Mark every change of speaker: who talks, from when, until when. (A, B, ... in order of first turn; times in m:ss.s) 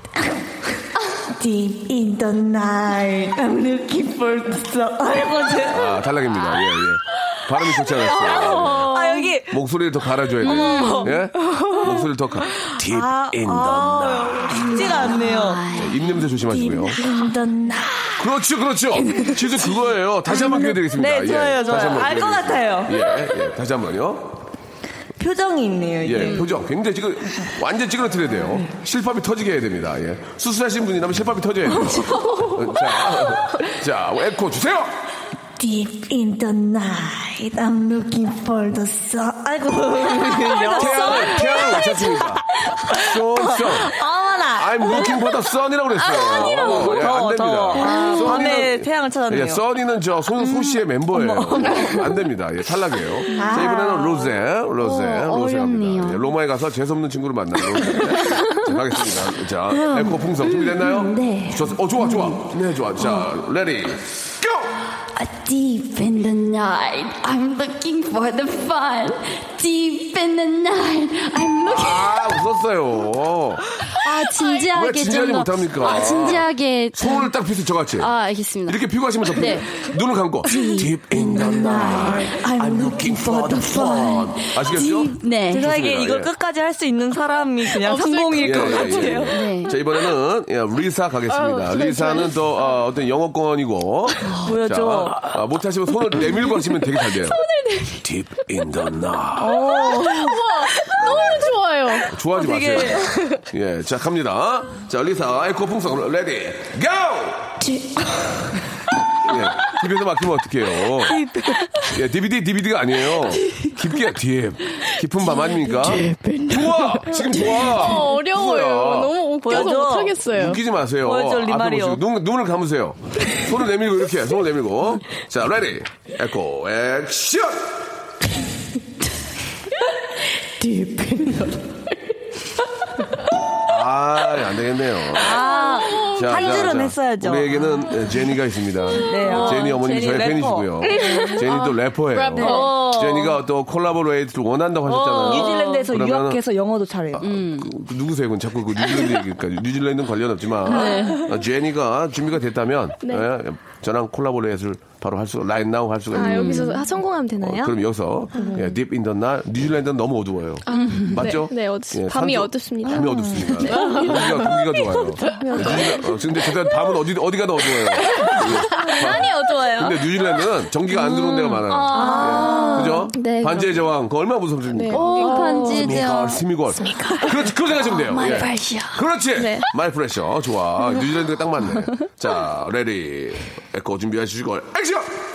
0:01.3-0:06.0 A
0:05.7-0:17.0 B
0:07.8-0:09.6 A
0:08.6-0:09.0 C
0:10.4-0:11.2 C
0:10.4-0:11.9 A
0:12.7-0:15.6 A
0:14.7-0:16.0 C
0:16.5-0:18.3 A
0:18.2-0:24.3 B
0:19.0-0:19.4 A
0:20.3-0:23.2 A
0:25.2-0:26.5 A
0:26.0-0:34.9 B
0:31.8-0:32.3 A
0:35.6-0:45.3 A
0:40.7-0:44.0 B
0:44.5-1:04.7 B
0:46.0-0:49.6 A
0:47.9-0:48.3 C
0:50.4-0:52.0 A
0:53.3-0:54.3 A
0:54.8-0:56.2 C
0:59.9-1:02.4 C
1:05.2-1:12.2 C
1:11.6-1:13.6 B
1:14.0-1:17.3 C
1:14.7-1:18.1 B
1:18.0-1:19.8 C
1:18.7-1:26.3 B
1:20.5-1:22.4 C
1:21.2-1:24.2 A
1:24.1-1:25.7 C
1:25.5-1:29.4 A
1:27.8-1:29.1 D
1:28.3-1:37.4 B
1:29.3-1:29.8 C
1:31.3-1:32.5 D
1:34.4-1:35.4 A
1:37.6-1:38.0 D
1:38.0-1:39.8 B
1:39.4-1:42.1 D
1:39.4-1:40.4 A
1:40.9-1:41.5 B
1:42.1-1:47.6 B
1:42.3-1:43.3 A
1:49.2-1:51.2 B
1:51.0-1:51.9 A
1:51.9-1:59.7 B
1:57.2-2:00.6 D
1:59.4-2:00.2 A
2:00.3-2:07.7 B
2:01.0-2:02.0 A
2:13.7-2:15.4 B
2:15.1-2:17.9 A
2:15.4-2:16.1 D
2:16.1-2:26.4 B
2:18.9-2:21.4 A
2:19.2-2:19.6 D
2:21.0-2:22.9 D
2:22.3-2:23.3 A
2:24.8-2:27.3 A
2:27.2-2:36.8 B
2:27.2-2:27.7 C
2:30.7-2:31.2 C
2:36.1-2:37.8 E
2:36.2-2:36.8 C
2:37.4-3:05.1 B
2:38.4-2:38.7 E
2:40.7-2:46.2 E
2:40.7-2:41.2 C
2:43.0-2:43.7 A
2:43.8-2:44.2 D
2:45.4-2:45.7 D
2:48.2-2:50.0 E
2:51.7-2:53.6 D
2:51.9-2:53.6 E
2:51.9-2:53.0 A
2:54.7-2:55.9 E
2:54.9-2:56.4 C
2:55.1-2:55.8 D
2:58.1-2:59.0 C
2:59.4-2:59.7 E